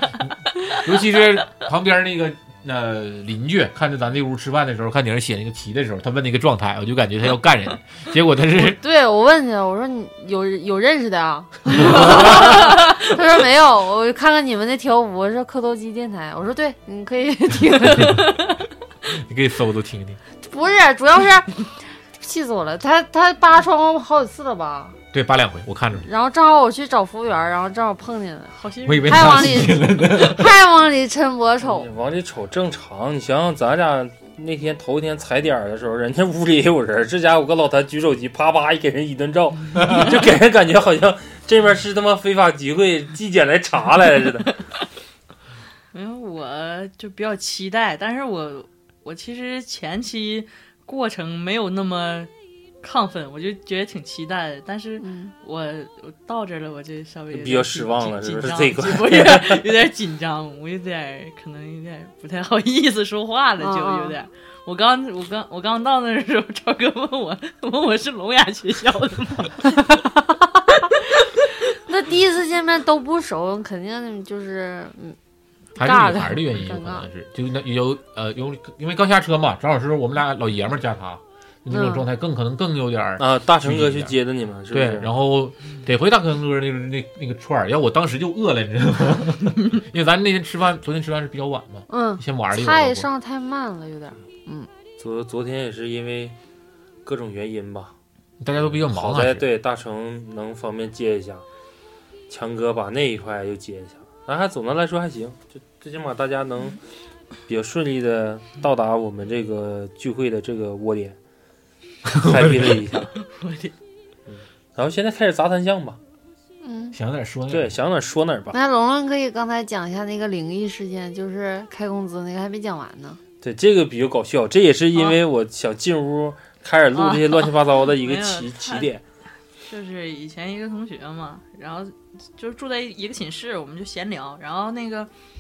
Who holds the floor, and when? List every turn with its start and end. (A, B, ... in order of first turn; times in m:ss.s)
0:00.3-0:08.8 A
0:08.6-0:18.2 B
0:11.8-0:12.5 A
0:18.0-0:18.2 A
0:19.1-0:20.2 A
0:20.4-0:25.0 B
0:25.1-0:26.1 A
0:26.0-0:31.9 B
0:28.5-0:29.6 C
0:28.8-0:30.5 A
0:31.6-0:44.5 D
0:45.9-0:52.3 C
0:52.8-1:09.7 C
0:55.0-0:55.3 B
0:57.3-0:59.7 D
1:03.6-1:04.2 B
1:11.8-1:15.2 B
1:15.8-1:17.1 B
1:15.8-1:24.2 A
1:21.7-1:22.1 B
1:23.2-1:25.1 D
1:24.7-1:33.1 A
1:31.9-1:34.7 B
1:35.0-1:36.4 D
1:37.0-1:38.0 D
1:38.4-1:39.4 A
1:38.7-1:41.4 D
1:42.3-1:46.8 D
1:47.5-1:51.2 D
1:52.1-1:53.0 A
1:52.2-1:53.1 D
1:53.2-1:53.7 C
1:54.3-1:56.0 D
1:56.6-1:57.0 B
1:56.9-1:57.8 A
1:57.5-1:58.6 D
1:58.5-2:03.2 B
2:03.4-2:09.0 D
2:06.9-2:08.9 C
2:09.7-2:15.1 C